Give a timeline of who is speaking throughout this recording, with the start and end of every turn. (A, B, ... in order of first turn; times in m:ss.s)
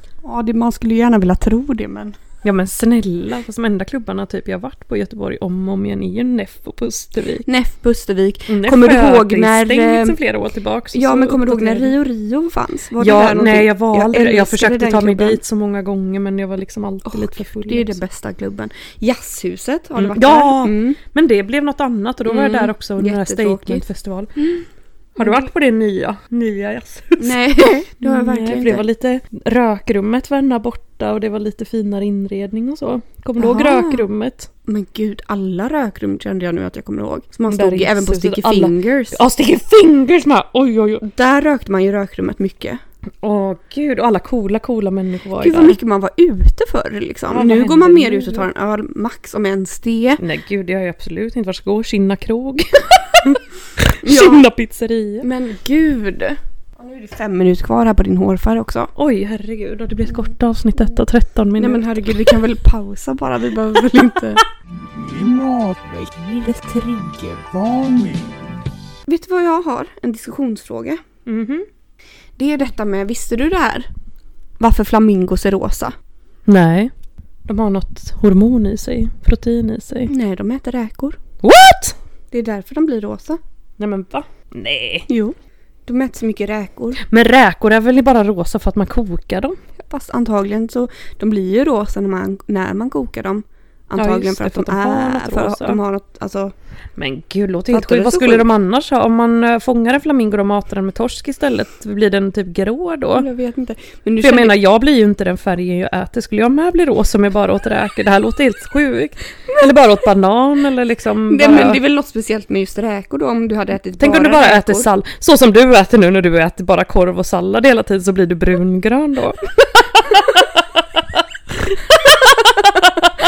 0:00.2-0:02.1 A
0:02.4-0:07.4 B
0:07.4-0:10.2 A
0:08.5-0:12.0 B
0:10.9-0:15.4 A
0:13.0-0:18.0 B
0:17.0-0:21.0 A
0:20.0-0:24.3 B
0:22.2-0:23.8 A
0:24.4-0:24.6 A
0:25.2-0:34.5 B
0:25.2-0:25.5 A
0:27.2-0:28.8 A
0:33.4-0:34.0 A
0:34.6-0:39.2 A
0:37.5-0:41.0 B
0:41.0-0:42.8 A
0:43.2-0:45.8 B
0:45.4-0:50.2 A
0:47.3-0:48.5 B
0:50.2-0:55.3 B
0:54.0-0:54.4 A
0:55.2-0:58.9 A
0:59.0-1:02.4 B
1:01.6-1:04.4 A
1:04.8-1:08.5 C
1:09.1-1:11.0 A
1:11.2-1:11.7 B
1:12.4-1:13.9 A
1:14.6-1:15.9 A
1:16.4-1:16.9 B
1:17.4-1:20.1 B
1:20.1-1:21.2 A
1:21.4-1:22.0 B
1:22.3-1:23.4 A
1:23.8-1:25.1 B
1:25.1-1:25.3 A
1:25.8-1:27.0 A
1:27.0-1:29.6 B
1:29.8-1:36.5 A
1:34.0-1:35.8 B
1:37.0-1:43.3 B
1:37.7-1:38.5 A
1:43.1-1:44.6 A
1:44.2-1:51.8 B
1:51.3-1:54.9 A
1:54.0-2:03.2 B